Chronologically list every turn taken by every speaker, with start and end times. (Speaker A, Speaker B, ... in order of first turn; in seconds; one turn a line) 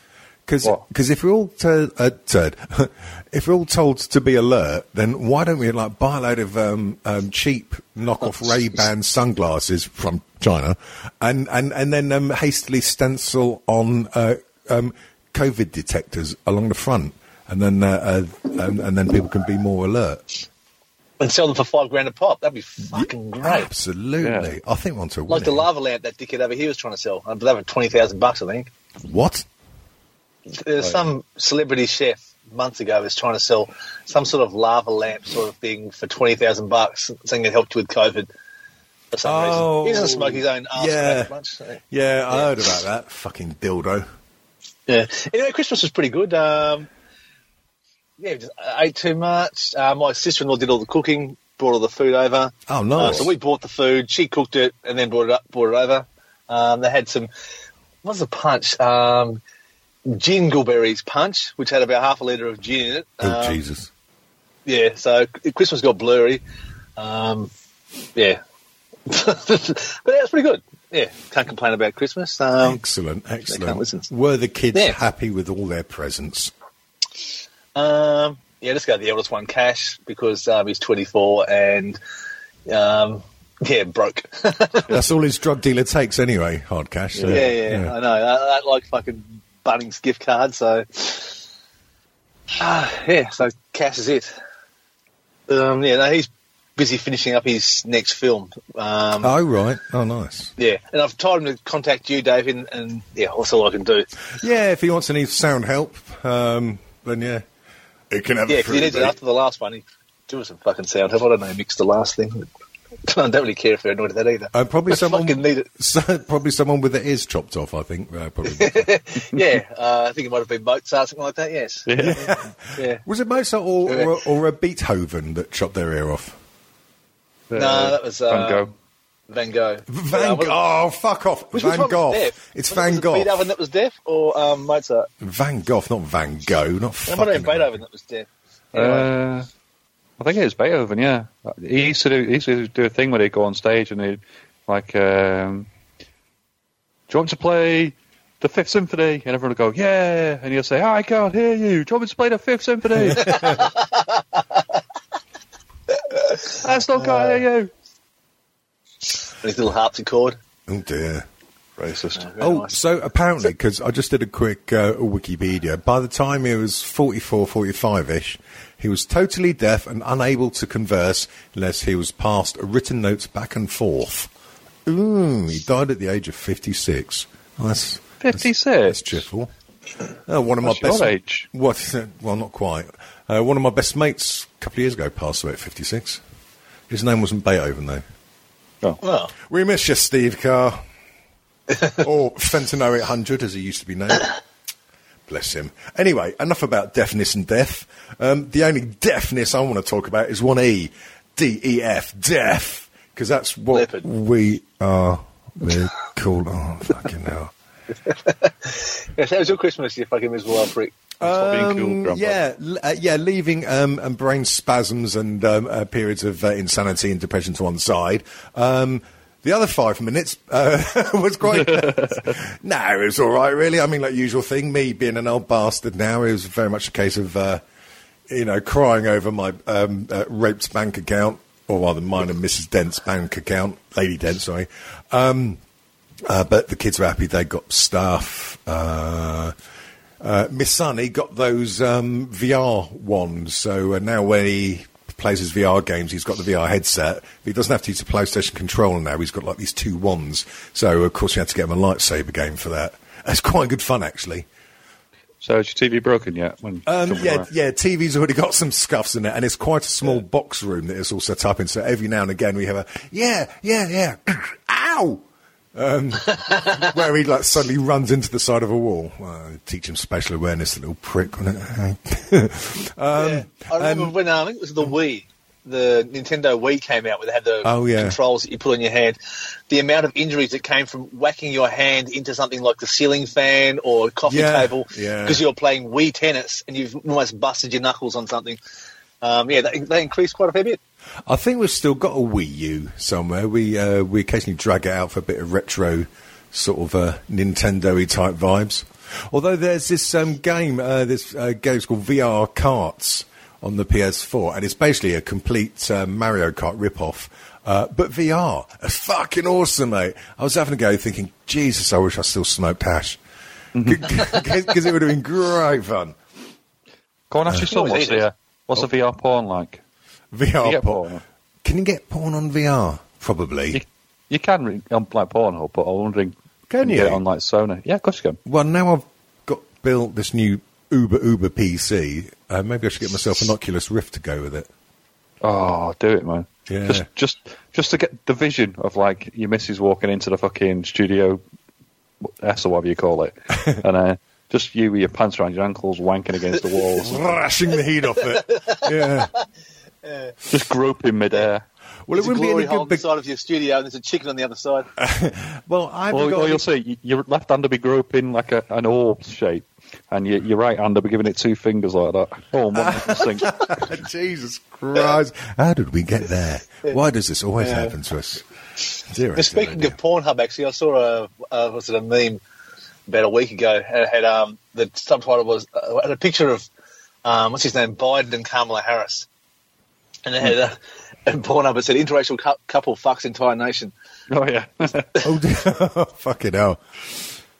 Speaker A: 0.5-20.4
Speaker B: 21.2-23.7
Speaker A: 22.9-25.7
Speaker C: 24.2-24.6
Speaker B: 25.3-28.7
Speaker A: 29.0-29.5
Speaker B: 30.5-38.3
Speaker B: 39.1-41.8
Speaker A: 39.2-41.3
Speaker A: 41.9-44.1
Speaker B: 44.9-46.9
Speaker B: 48.2-57.3
Speaker A: 52.7-53.3
Speaker B: 58.0-59.4
Speaker B: 60.1-63.6
Speaker A: 63.2-63.9
Speaker B: 64.7-66.4
Speaker B: 67.0-67.5
Speaker B: 68.2-68.4
Speaker B: 69.1-72.8
Speaker A: 72.6-76.5
Speaker B: 73.5-74.1
Speaker B: 77.8-82.0
Speaker B: 82.7-85.0
Speaker A: 84.9-87.9
Speaker C: 87.2-87.4
Speaker B: 87.3-91.4
Speaker B: 92.5-94.3
Speaker B: 95.5-99.3
Speaker A: 99.2-100.5
Speaker B: 100.6-104.1
Speaker A: 104.4-107.4
Speaker A: 108.1-109.2
Speaker B: 108.5-112.5
Speaker B: 113.0-115.7
Speaker A: 114.5-118.9
Speaker B: 118.5-121.9
Speaker C: 121.9-122.2
Speaker A: 122.0-126.4
Speaker B: 122.8-123.0
Speaker B: 123.9-124.2
Speaker C: 127.5-128.7
Speaker B: 127.5-128.7
Speaker B: 129.3-130.6
Speaker A: 129.9-133.5
Speaker B: 131.5-135.1
Speaker A: 135.2-137.8
Speaker B: 137.1-139.1
Speaker C: 138.8-139.5
Speaker C: 140.2-145.7
Speaker C: 147.1-153.7
Speaker A: 153.1-153.4
Speaker B: 153.3-154.0
Speaker C: 156.5-157.7
Speaker B: 156.9-157.4
Speaker B: 159.2-160.4
Speaker A: 160.7-161.3
Speaker C: 161.8-162.3
Speaker B: 162.2-162.8
Speaker A: 162.4-174.3
Speaker A: 174.9-179.5
Speaker C: 178.2-179.2
Speaker A: 180.3-186.2
Speaker C: 180.6-181.5
Speaker A: 186.9-188.0
Speaker B: 189.0-189.3
Speaker A: 189.4-190.8
Speaker A: 191.9-194.3
Speaker A: 195.3-207.5
Speaker B: 203.7-204.1
Speaker B: 208.1-211.0
Speaker A: 211.2-227.6
Speaker C: 211.2-212.4
Speaker C: 221.7-222.2
Speaker A: 228.3-235.6
Speaker A: 236.3-239.6
Speaker A: 240.2-254.5
Speaker C: 255.4-257.5
Speaker A: 256.9-265.2
Speaker A: 265.8-274.1
Speaker B: 273.1-279.2
Speaker A: 277.6-278.2
Speaker B: 279.7-288.6
Speaker A: 284.3-285.4
Speaker B: 289.2-290.8
Speaker A: 291.3-313.2
Speaker C: 313.8-314.2
Speaker A: 313.8-316.2
Speaker C: 317.3-319.8
Speaker B: 317.6-318.3
Speaker A: 320.3-321.1
Speaker C: 320.6-321.2
Speaker A: 321.6-323.8
Speaker C: 323.7-328.4
Speaker A: 326.7-327.2
Speaker A: 328.5-334.7
Speaker C: 335.4-341.4
Speaker A: 336.7-337.1
Speaker C: 342.2-347.3
Speaker A: 347.0-349.3
Speaker B: 348.4-348.9
Speaker B: 350.0-350.4
Speaker C: 350.5-351.6
Speaker A: 352.1-353.0
Speaker B: 352.1-354.9
Speaker A: 355.0-356.7
Speaker C: 356.1-363.7
Speaker A: 362.7-368.4
Speaker B: 367.6-367.9
Speaker A: 369.1-370.0
Speaker B: 369.4-372.4
Speaker B: 373.1-376.7
Speaker B: 377.2-379.3
Speaker B: 380.3-383.9
Speaker C: 384.3-385.2
Speaker A: 385.2-387.2